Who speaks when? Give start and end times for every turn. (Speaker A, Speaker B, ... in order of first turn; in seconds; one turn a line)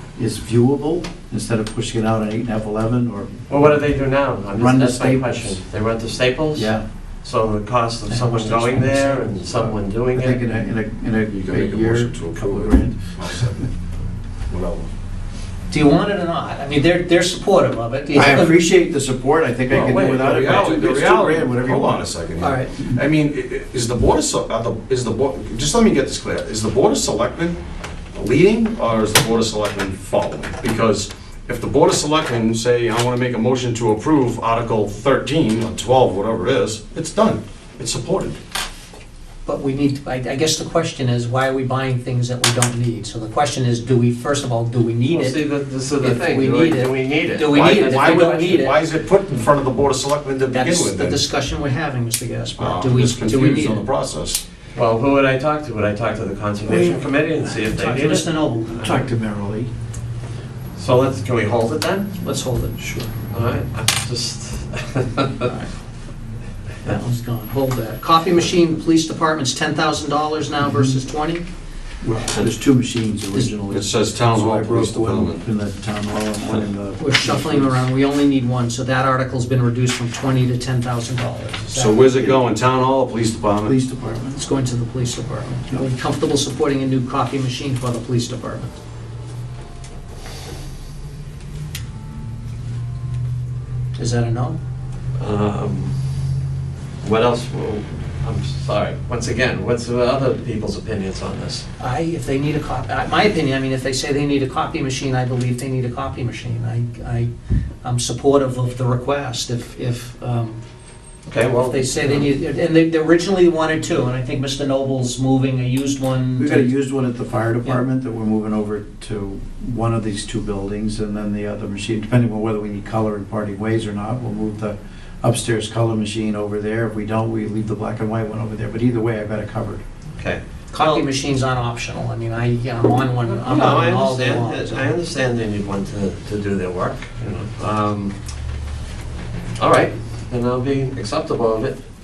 Speaker A: 0.2-3.4
Speaker B: 3.5-10.4
Speaker A: 4.5-5.5
Speaker A: 6.5-6.8
Speaker C: 8.1-9.7
Speaker A: 10.1-13.1
Speaker D: 11.3-13.7
Speaker D: 14.5-14.9
Speaker C: 15.7-18.6
Speaker A: 18.1-22.1
Speaker B: 19.7-21.0
Speaker D: 20.2-27.6
Speaker C: 22.4-22.7
Speaker D: 28.1-38.4
Speaker C: 39.5-48.7
Speaker B: 45.1-48.7
Speaker D: 47.5-51.2
Speaker C: 50.5-53.9
Speaker D: 52.6-54.4
Speaker B: 54.8-58.3
Speaker A: 56.7-57.0
Speaker C: 56.7-57.0
Speaker C: 57.5-59.0
Speaker A: 58.8-59.7
Speaker B: 60.8-62.1
Speaker C: 62.2-62.9
Speaker A: 62.8-63.1
Speaker B: 63.3-65.4
Speaker C: 65.4-65.7
Speaker C: 66.8-71.5
Speaker A: 70.6-71.0
Speaker A: 72.0-77.8
Speaker D: 73.7-75.5
Speaker C: 77.0-82.2
Speaker D: 81.8-83.8
Speaker A: 83.6-84.4
Speaker C: 84.4-88.7
Speaker C: 94.0-94.6
Speaker B: 95.2-95.9
Speaker B: 97.0-101.7
Speaker C: 101.8-107.3
Speaker C: 107.8-110.6
Speaker B: 111.3-112.3
Speaker C: 111.6-116.7
Speaker A: 116.4-129.8
Speaker B: 130.2-131.0
Speaker C: 130.7-135.0
Speaker B: 133.2-138.2
Speaker B: 139.6-141.8